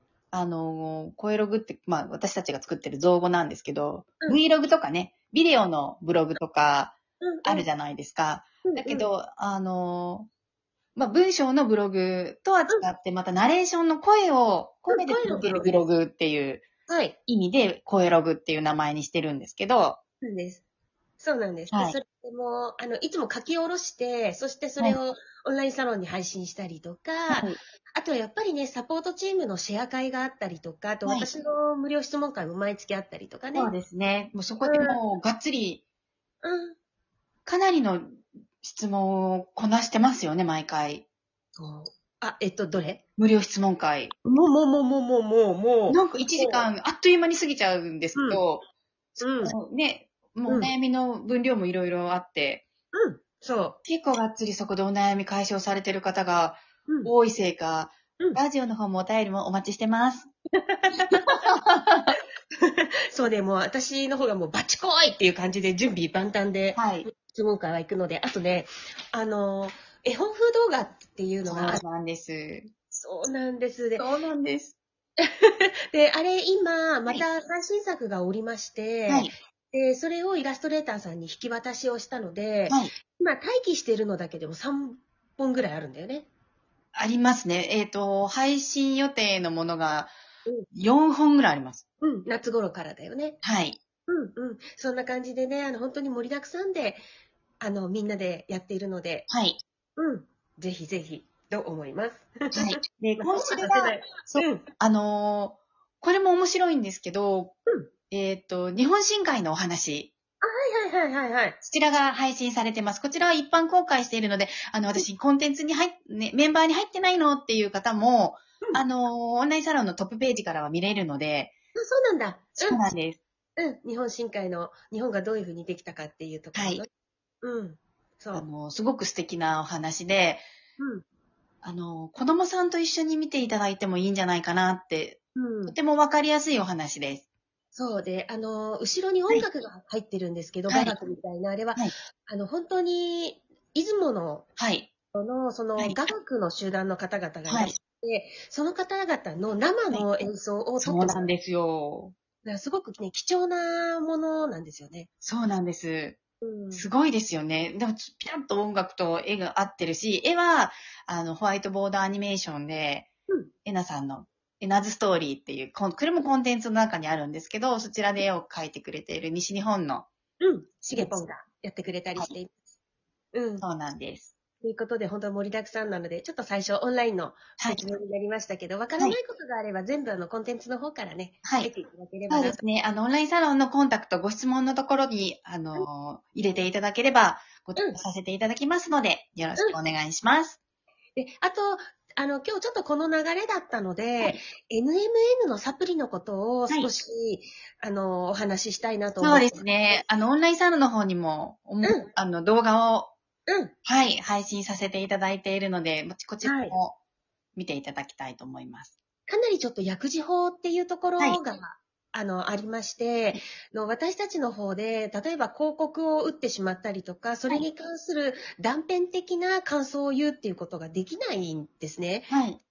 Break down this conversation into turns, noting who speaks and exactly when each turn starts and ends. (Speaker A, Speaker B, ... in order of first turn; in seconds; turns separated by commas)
Speaker A: 0.3-10.3, Speaker B: 7.2-7.7, Speaker B: 8.7-9.1, Speaker A: 11.0-16.6, Speaker B: 14.9-15.8, Speaker B: 16.9-17.2, Speaker A: 17.3-20.0, Speaker B: 20.2-20.6, Speaker B: 21.2-33.7, Speaker A: 21.7-22.0, Speaker A: 27.3-27.6, Speaker A: 33.5-35.8, Speaker B: 34.6-35.0, Speaker B: 36.4-36.8, Speaker A: 37.5-41.0, Speaker B: 41.6-43.0, Speaker A: 43.2-44.1, Speaker B: 44.2-46.7, Speaker A: 45.9-48.7, Speaker B: 48.2-48.4, Speaker A: 49.2-52.6, Speaker B: 49.2-49.5, Speaker B: 52.9-53.8, Speaker A: 53.8-60.3, Speaker B: 60.6-61.4, Speaker A: 61.1-62.2, Speaker B: 62.6-71.8, Speaker A: 66.8-67.1, Speaker A: 71.5-72.7, Speaker B: 72.9-74.0, Speaker A: 74.0-74.8, Speaker B: 75.2-86.3, Speaker A: 79.1-79.3, Speaker A: 86.9-90.1, Speaker A: 90.7-91.8, Speaker B: 92.0-93.4, Speaker A: 93.4-93.8, Speaker B: 94.1-97.0, Speaker B: 97.6-99.3, Speaker A: 99.3-99.6, Speaker B: 100.0-104.6, Speaker A: 102.5-107.5, Speaker A: 108.1-110.1, Speaker B: 110.4-111.6, Speaker A: 111.6-121.5, Speaker B: 121.8-122.8, Speaker A: 122.6-123.2, Speaker B: 123.6-126.9, Speaker A: 126.5-126.8, Speaker B: 127.4-128.4, Speaker A: 128.3-130.4, Speaker B: 130.8-131.0, Speaker A: 131.6-137.2, Speaker B: 135.4-135.8, Speaker B: 137.8-144.5, Speaker A: 140.7-140.9, Speaker A: 144.6-144.9, Speaker B: 145.1-151.3, Speaker A: 147.5-147.8, Speaker A: 150.8-152.2, Speaker B: 152.4-155.1, Speaker A: 155.2-156.2, Speaker B: 156.4-156.8, Speaker A: 156.7-163.1, Speaker A: 163.7-170.1, Speaker B: 170.4-172.5, Speaker A: 170.9-171.2, Speaker B: 173.3-173.6, Speaker A: 173.6-174.3, Speaker B: 174.6-182.6, Speaker A: 177.6-177.8, Speaker A: 181.4-181.7, Speaker A: 182.3-190.6, Speaker B: 191.2-199.7, Speaker A: 199.2-203.1, Speaker B: 203.5-203.7, Speaker A: 203.8-206.9, Speaker B: 206.4-206.8, Speaker A: 207.6-208.9, Speaker B: 209.3-222.3, Speaker A: 222.3-222.6